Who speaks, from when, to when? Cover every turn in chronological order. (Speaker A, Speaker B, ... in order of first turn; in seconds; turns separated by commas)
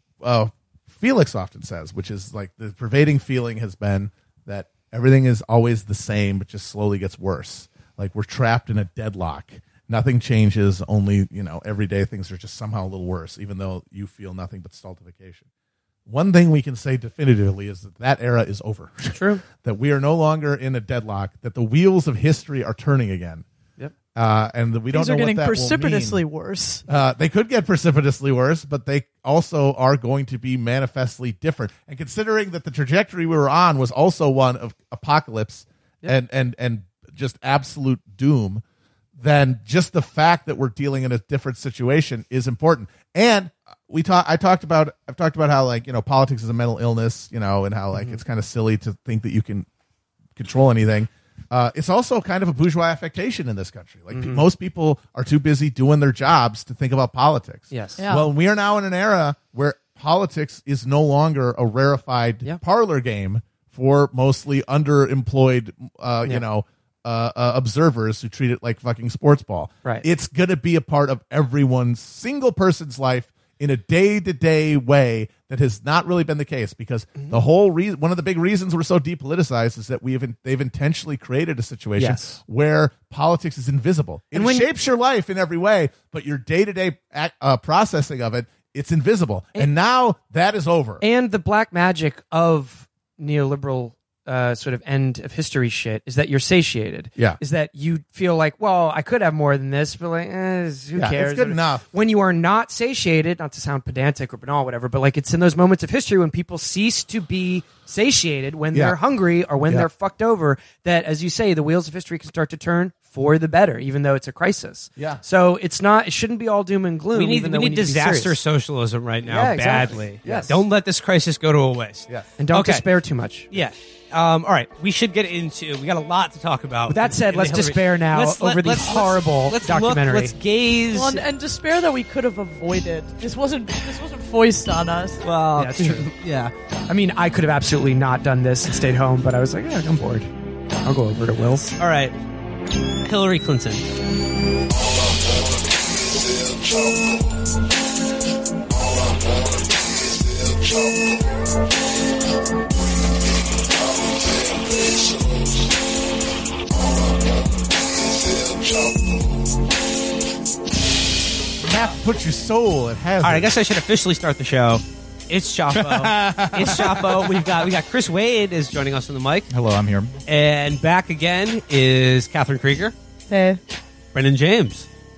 Speaker A: 0.2-15.4, Speaker A: 16.1-23.4, Speaker B: 19.1-19.4, Speaker A: 24.1-26.2, Speaker C: 24.9-26.8, Speaker A: 26.9-38.6, Speaker A: 39.2-49.7, Speaker A: 50.4-91.0, Speaker B: 54.1-54.4, Speaker B: 57.7-58.0, Speaker C: 58.0-58.3, Speaker B: 82.0-82.4, Speaker B: 84.3-84.7, Speaker B: 91.0-118.4, Speaker A: 100.9-101.8, Speaker A: 108.7-109.0, Speaker D: 117.1-122.8, Speaker B: 119.2-120.5, Speaker A: 120.2-120.5, Speaker B: 122.4-123.5, Speaker D: 123.5-131.2, Speaker B: 126.9-130.3, Speaker C: 130.9-135.2, Speaker D: 135.2-136.5, Speaker B: 135.5-136.1, Speaker B: 136.9-140.3, Speaker B: 140.8-141.8, Speaker D: 141.8-142.1, Speaker D: 143.0-143.9, Speaker A: 161.6-163.5, Speaker D: 163.2-169.5, Speaker E: 165.7-167.4, Speaker E: 169.5-170.2, Speaker D: 170.2-172.9, Speaker C: 173.3-173.6, Speaker D: 174.1-174.9